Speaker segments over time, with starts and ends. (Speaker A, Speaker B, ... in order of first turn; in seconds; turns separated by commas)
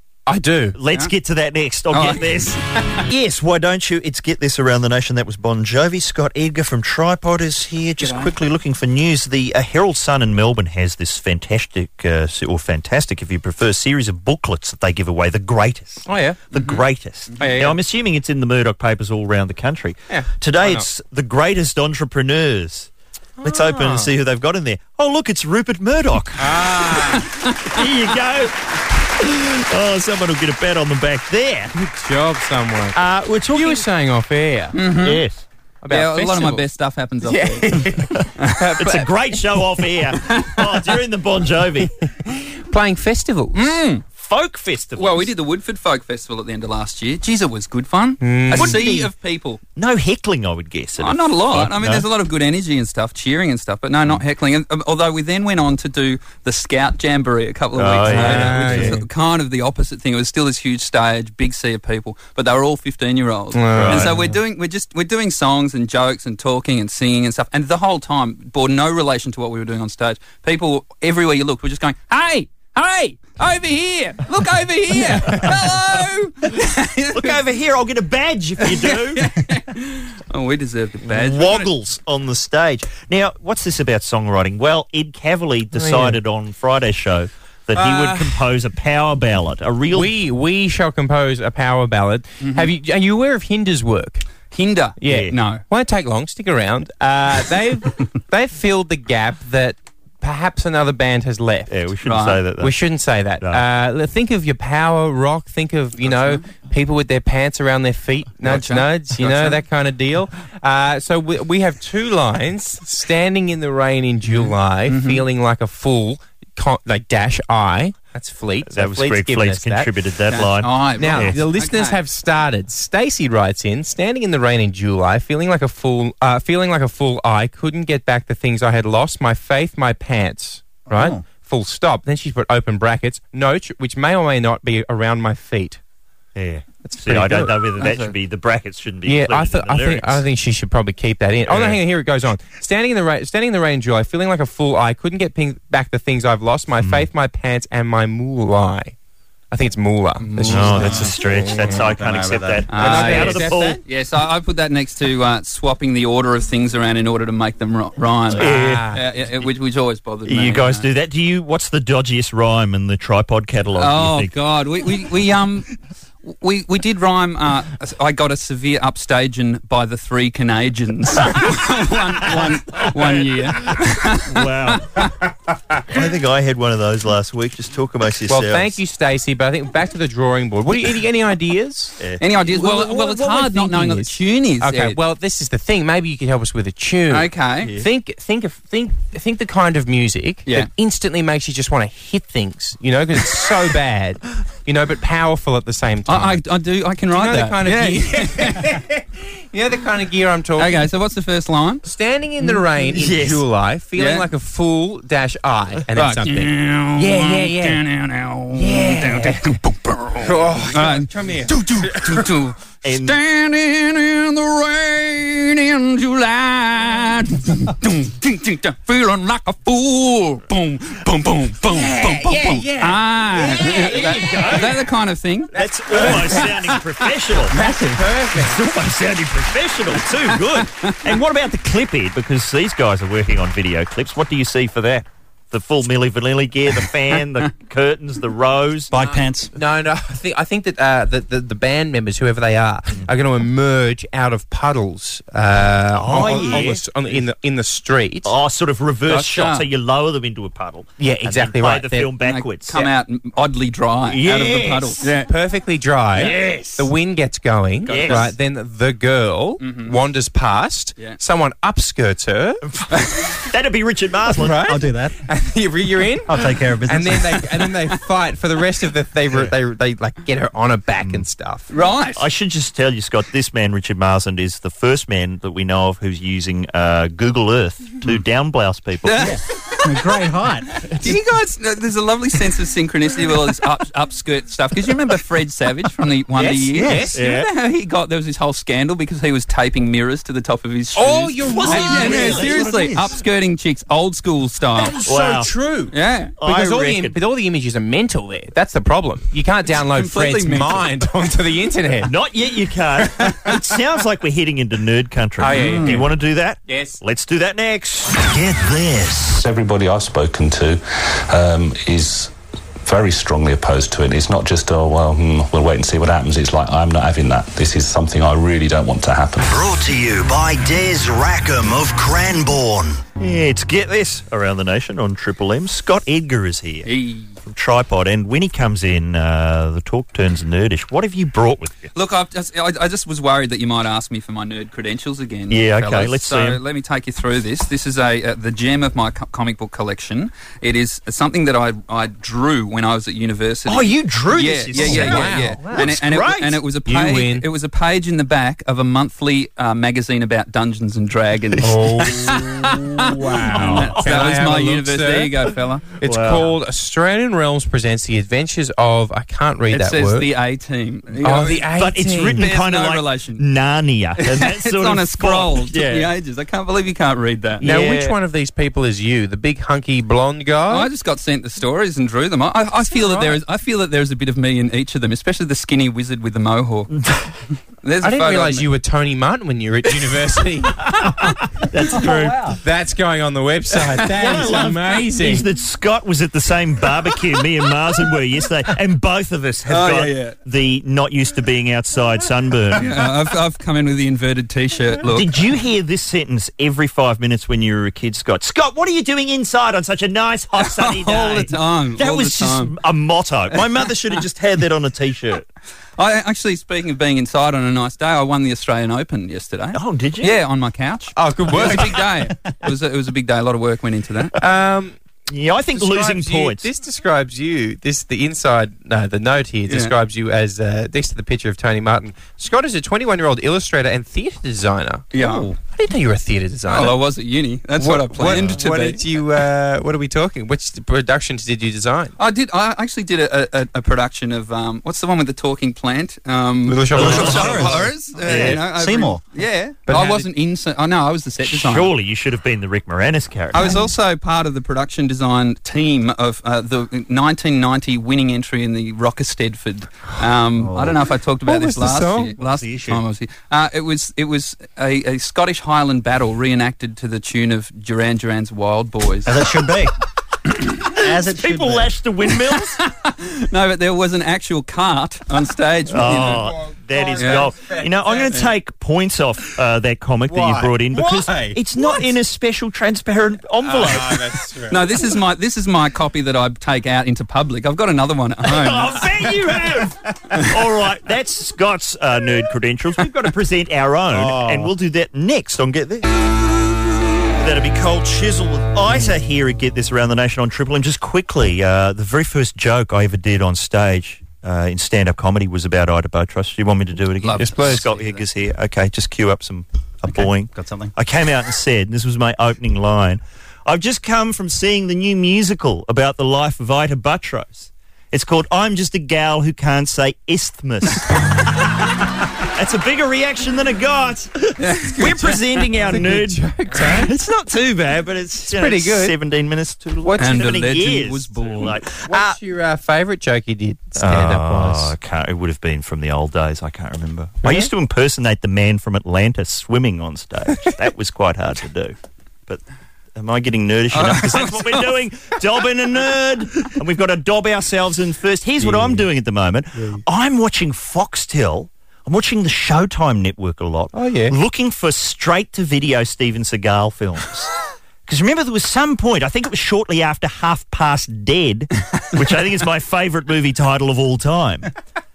Speaker A: 0.3-0.8, Speaker B: 0.8-22.9, Speaker C: 1.9-2.6, Speaker C: 8.0-8.3, Speaker A: 16.1-16.5, Speaker C: 16.5-16.8, Speaker C: 17.3-17.8, Speaker A: 17.4-17.8, Speaker A: 20.1-20.9, Speaker A: 23.4-24.1, Speaker B: 23.4-26.5, Speaker A: 26.4-27.2, Speaker C: 27.1-27.8, Speaker B: 27.7-28.6, Speaker B: 29.2-31.7, Speaker A: 31.8-33.0, Speaker B: 33.0-33.9, Speaker A: 33.5-34.8, Speaker C: 34.7-35.2, Speaker B: 35.0-35.4, Speaker A: 35.8-36.6, Speaker C: 35.9-38.9, Speaker A: 37.2-39.1, Speaker B: 38.8-41.9, Speaker A: 42.3-43.8, Speaker C: 43.5-44.0, Speaker B: 44.1-45.3, Speaker C: 45.0-49.6, Speaker A: 48.2-48.8, Speaker B: 48.5-49.1, Speaker B: 49.8-52.0, Speaker C: 51.0-77.4, Speaker B: 57.8-59.0, Speaker A: 58.1-59.0, Speaker A: 63.5-64.3, Speaker B: 63.7-64.2, Speaker B: 77.1-79.3, Speaker C: 78.6-81.7, Speaker B: 81.1-90.1, Speaker A: 85.7-86.2, Speaker A: 87.8-88.4, Speaker A: 89.9-94.3, Speaker C: 92.4-92.7, Speaker C: 94.5-95.6, Speaker A: 95.0-101.7, Speaker B: 95.1-95.4, Speaker B: 101.7-102.7, Speaker C: 102.0-102.4, Speaker A: 102.6-119.9, Speaker C: 106.0-106.5, Speaker C: 108.4-109.6, Speaker C: 114.2-115.3, Speaker B: 118.7-121.4, Speaker C: 120.3-122.0, Speaker A: 121.0-135.8, Speaker D: 130.9-131.2, Speaker B: 136.3-140.2, Speaker A: 136.8-137.6, Speaker C: 137.8-138.1, Speaker A: 139.1-148.9, Speaker B: 141.5-141.8, Speaker B: 146.8-147.1, Speaker A: 149.5-151.9, Speaker C: 150.2-150.9, Speaker B: 150.5-153.8, Speaker D: 150.5-153.1, Speaker C: 152.7-160.9, Speaker A: 152.7-153.8, Speaker A: 158.3-159.2, Speaker B: 158.3-158.9, Speaker B: 160.3-164.3, Speaker C: 163.8-165.7, Speaker C: 166.2-175.1, Speaker B: 172.3-173.7, Speaker B: 174.3-175.0, Speaker B: 175.9-178.8, Speaker A: 178.3-196.4, Speaker B: 182.0-182.2, Speaker C: 182.2-185.0, Speaker C: 187.1-187.7, Speaker C: 196.1-198.8, Speaker A: 197.1-200.9, Speaker C: 200.6-201.9, Speaker A: 201.8-207.8, Speaker B: 202.9-203.4, Speaker C: 204.0-204.3, Speaker C: 205.9-225.5, Speaker A: 208.5-209.6, Speaker A: 210.2-212.2, Speaker B: 212.8-213.2, Speaker A: 221.7-224.8, Speaker B: 224.0-224.7, Speaker A: 225.5-226.8, Speaker B: 225.6-227.7, Speaker A: 227.5-228.6, Speaker B: 228.3-238.9, Speaker C: 230.3-231.1, Speaker D: 238.9-239.5, Speaker A: 239.1-248.3, Speaker B: 246.0-246.8, Speaker B: 248.2-252.9, Speaker C: 249.1-249.7, Speaker A: 251.0-252.1, Speaker C: 252.2-255.3, Speaker B: 254.1-255.0, Speaker A: 255.2-262.6, Speaker C: 256.2-256.9, Speaker B: 256.3-256.6, Speaker C: 257.8-258.3, Speaker B: 257.9-258.3, Speaker C: 259.6-260.0, Speaker B: 262.6-264.6, Speaker A: 264.4-271.7, Speaker D: 264.6-265.1, Speaker D: 266.3-267.5, Speaker C: 267.7-268.0, Speaker C: 271.7-272.3, Speaker B: 272.2-279.3, Speaker C: 279.1-280.2, Speaker D: 279.2-280.8, Speaker C: 280.8-295.0, Speaker A: 286.4-287.2, Speaker D: 286.8-287.1, Speaker B: 287.1-287.5, Speaker A: 290.9-292.7, Speaker B: 291.6-293.1, Speaker A: 294.8-302.1, Speaker B: 295.1-295.5, Speaker C: 295.9-296.3, Speaker B: 296.4-297.2, Speaker C: 299.7-300.9, Speaker B: 302.1-308.3, Speaker A: 305.4-306.1, Speaker C: 305.5-306.0, Speaker A: 306.7-307.0, Speaker E: 308.3-309.4, Speaker F: 309.4-319.6, Speaker E: 319.4-323.0, Speaker B: 323.2-326.9, Speaker C: 326.9-327.3, Speaker B: 327.4-331.9, Speaker C: 331.9-355.9, Speaker B: 335.5-336.6, Speaker B: 343.7-346.6, Speaker A: 344.7-345.9, Speaker A: 346.9-347.5, Speaker A: 351.6-355.3, Speaker B: 353.5-354.0, Speaker A: 356.0-360.3, Speaker B: 356.0-356.5, Speaker C: 359.7-361.7, Speaker A: 361.2-362.5, Speaker B: 361.7-366.1, Speaker C: 362.4-363.5, Speaker C: 364.2-367.6, Speaker B: 367.6-368.1, Speaker A: 367.6-370.9, Speaker C: 370.7-376.9, Speaker A: 372.8-373.4, Speaker C: 377.8-378.7, Speaker A: 378.0-381.1, Speaker B: 381.7-382.6, Speaker A: 382.0-385.5, Speaker C: 382.0-382.3, Speaker C: 384.0-384.7, Speaker B: 384.2-393.0, Speaker C: 389.7-390.4, Speaker C: 392.8-395.5, Speaker B: 395.1-405.4, Speaker C: 400.6-402.8, Speaker C: 406.0-414.3, Speaker B: 409.7-410.4, Speaker A: 411.1-412.0, Speaker A: 414.4-415.0, Speaker B: 415.3-416.7, Speaker A: 415.7-427.0, Speaker C: 419.7-419.9, Speaker C: 425.1-425.5, Speaker C: 426.7-429.2, Speaker A: 427.8-432.1, Speaker C: 432.2-441.9, Speaker A: 436.6-437.9, Speaker D: 436.9-437.9, Speaker B: 436.9-438.7, Speaker D: 438.5-439.2, Speaker A: 439.9-440.3, Speaker B: 441.5-443.8, Speaker C: 443.5-459.4, Speaker D: 450.6-450.9, Speaker A: 451.4-452.4, Speaker B: 452.4-453.0, Speaker D: 459.3-459.9, Speaker D: 461.0-461.9, Speaker B: 461.3-462.8, Speaker C: 462.5-466.5, Speaker B: 465.9-474.3, Speaker A: 466.1-468.4, Speaker C: 467.2-467.5, Speaker A: 470.3-472.0, Speaker A: 473.6-474.9, Speaker C: 474.7-479.1, Speaker B: 478.5-486.1, Speaker A: 484.1-484.7, Speaker B: 487.3-511.7, Speaker C: 497.2-498.2, Speaker A: 497.4-497.9, Speaker D: 500.1-500.9, Speaker B: 512.5-522.4, Speaker C: 514.6-515.4, Speaker A: 515.8-517.1, Speaker A: 518.5-519.1, Speaker C: 520.2-521.8, Speaker A: 522.0-524.9, Speaker B: 524.0-532.0, Speaker A: 527.4-527.7, Speaker B: 533.2-547.5, Speaker C: 533.9-535.0, Speaker A: 538.6-539.1, Speaker A: 543.9-544.4, Speaker B: 548.1-554.7